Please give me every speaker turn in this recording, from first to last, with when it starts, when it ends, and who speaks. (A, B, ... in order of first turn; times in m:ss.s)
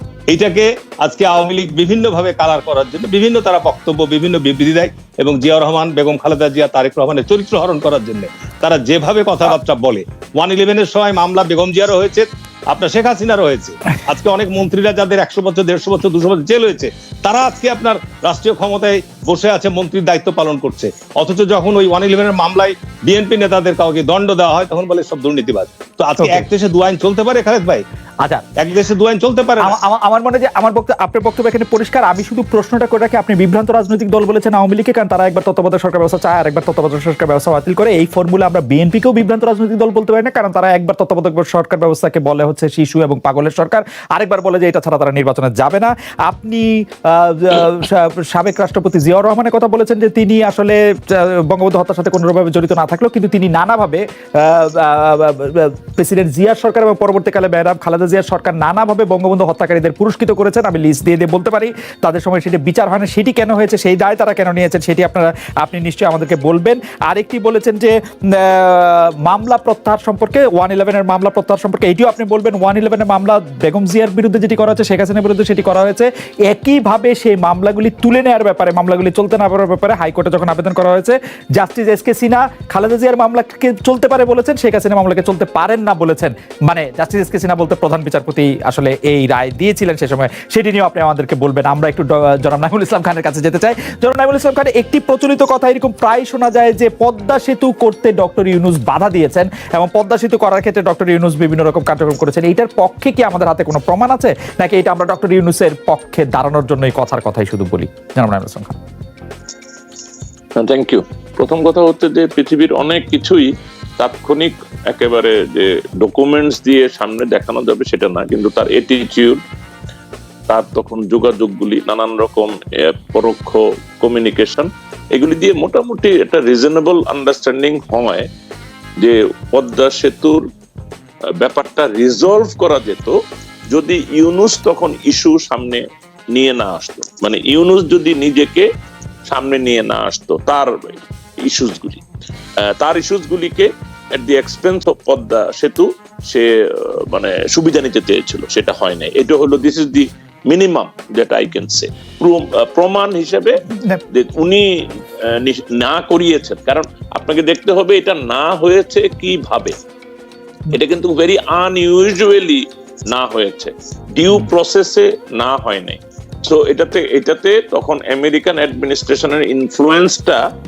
0:00.3-0:27.8 A
0:26.2-0:26.4 B
0:28.6-0:29.7 A
0:29.6-1:48.8 B
1:50.6-1:59.4 C
2:00.5-2:08.3 C
2:09.0-2:10.4 C
2:11.4-2:13.2 C
2:13.7-2:15.8 C
2:16.3-2:18.7 C
2:19.3-2:22.0 C
2:22.6-2:34.7 C
2:33.7-2:34.0 B
2:35.2-2:39.7 C
2:40.7-2:50.4 C